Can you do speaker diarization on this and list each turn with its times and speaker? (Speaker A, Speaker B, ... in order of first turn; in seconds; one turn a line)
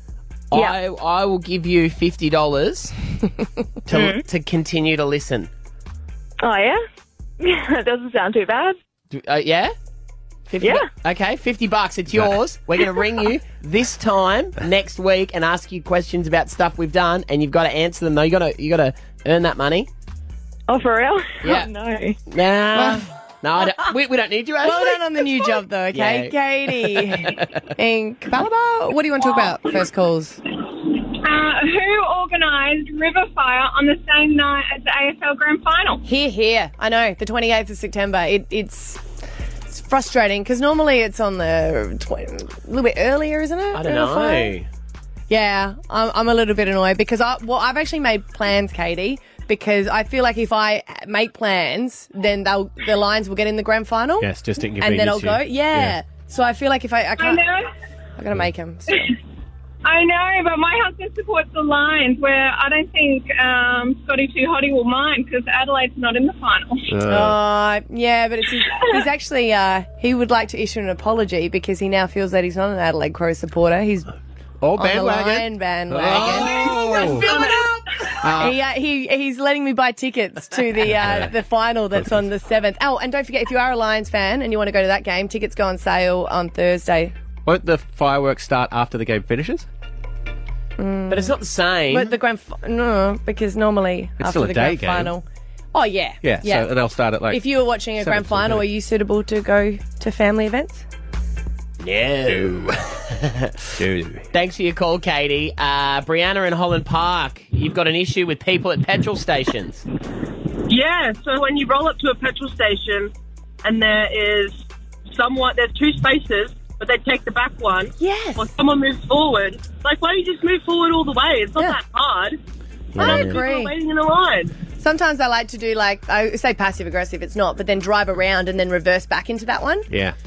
Speaker A: 0.5-2.9
Speaker A: 3.9-5.5
Speaker B: 3.9-4.2
Speaker B: 6.4-6.8
Speaker B: 7.4-8.8
Speaker A: 9.1-9.7
Speaker A: 10.5-19.9
Speaker B: 10.6-10.9
Speaker B: 20.7-22.2
Speaker A: 21.4-21.7
Speaker A: 22.3-27.5
Speaker C: 22.7-23.0
Speaker C: 24.6-30.4
Speaker D: 31.1-36.0
Speaker C: 36.0-39.0
Speaker C: 39.7-44.5
Speaker A: 43.7-44.7
Speaker C: 45.3-57.4
Speaker E: 54.2-56.0
Speaker D: 57.2-57.7
Speaker C: 58.2-59.1
Speaker D: 59.8-66.9
Speaker E: 66.9-67.4
Speaker C: 67.1-74.1
Speaker E: 74.6-77.4
Speaker C: 74.8-77.1
Speaker A: 76.1-77.2
Speaker F: 76.5-77.7
Speaker E: 78.2-78.6
Speaker C: 78.3-87.1
Speaker E: 80.9-81.3
Speaker E: 87.4-89.7
Speaker C: 90.8-91.4
Speaker A: 91.1-92.2
Speaker C: 91.9-100.8
Speaker E: 94.2-95.1
Speaker E: 96.2-97.4
Speaker E: 98.0-98.7
Speaker A: 101.8-103.7
Speaker E: 102.3-102.7
Speaker E: 103.8-104.3
Speaker A: 104.3-109.8
Speaker F: 110.7-113.1
Speaker F: 113.6-122.4
Speaker C: 118.0-118.4
Speaker A: 122.9-123.4
Speaker F: 122.9-124.5
Speaker C: 123.0-123.7
Speaker C: 124.8-129.9
Speaker E: 129.9-130.2